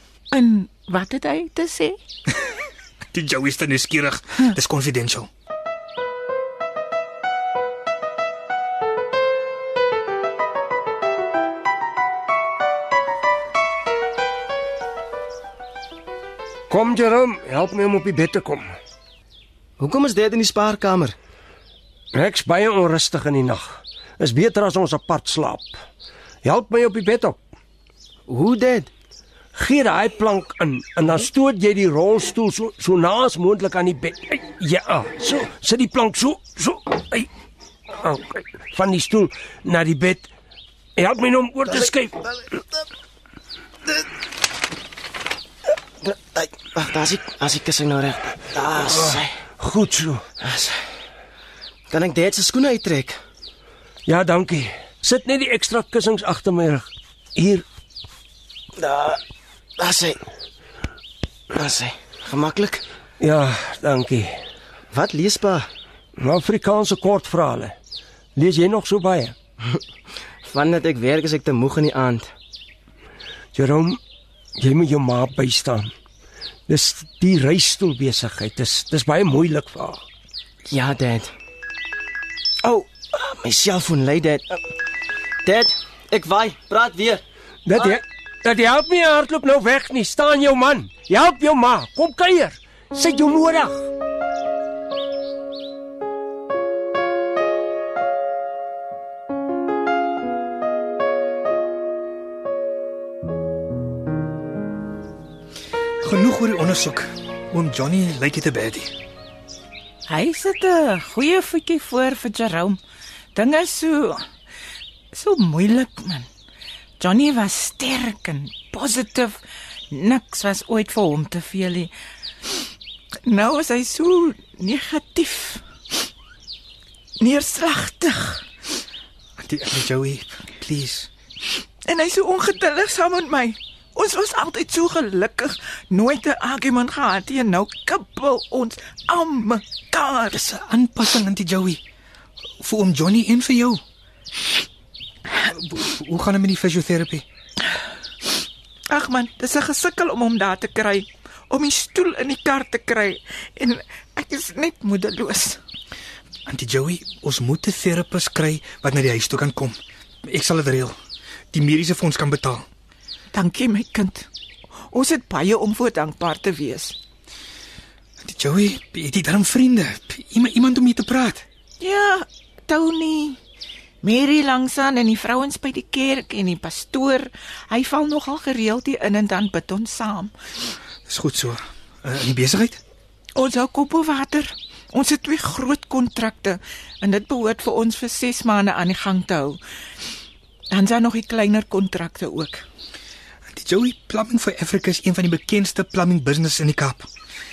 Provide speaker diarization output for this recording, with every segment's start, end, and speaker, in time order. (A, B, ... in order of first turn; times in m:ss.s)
0:00.3-0:02.0 A
0:03.1-0:05.3 B
0:16.7-0:18.7 C
0:19.8-0:21.2 D
0:22.1-0:25.7 C
0:26.4-0:27.4 C
0:28.3-0:28.9 D
0:29.5-0:37.3 C
0:37.9-0:40.3 C
0:41.0-0:42.4 C
0:46.0-0:49.4 D
0:49.1-0:50.2 C
0:50.4-0:50.8 D
0:51.9-0:53.2 D
0:54.0-0:57.6 C
0:58.8-0:59.2 D
0:59.8-1:00.2 D
1:01.5-1:02.8 D
1:03.2-1:04.4 C
1:04.9-1:05.7 D
1:06.2-1:07.7 C
1:08.4-1:09.3 C
1:10.4-1:12.3 D
1:13.5-1:14.0 C
1:14.6-1:15.9 C
1:16.7-1:20.0 C
1:20.7-1:21.3 D
1:22.6-1:24.6 D
1:25.4-1:27.2 D
1:27.6-1:33.9 C
1:46.0-1:48.9 B
1:50.1-1:52.8 A
1:53.3-1:54.2 A
1:55.1-1:56.3 A
1:57.0-2:01.9 A
2:03.2-2:05.6 A
2:07.2-2:08.4 A
2:09.4-2:11.1 B
2:11.8-2:20.4 A
2:20.3-2:21.8 B
2:22.6-2:23.8 B
2:25.4-2:27.2 B
2:28.9-2:35.6 A
2:36.5-2:41.0 B
2:41.5-2:42.6 B
2:43.3-2:44.3 A
2:44.9-2:47.0 A
2:48.2-2:51.4 B
2:51.8-2:53.4 A
2:54.0-3:00.3 A
3:01.1-3:02.8 B
3:03.4-3:09.6 A
3:10.7-3:12.6 A
3:13.5-3:17.1 B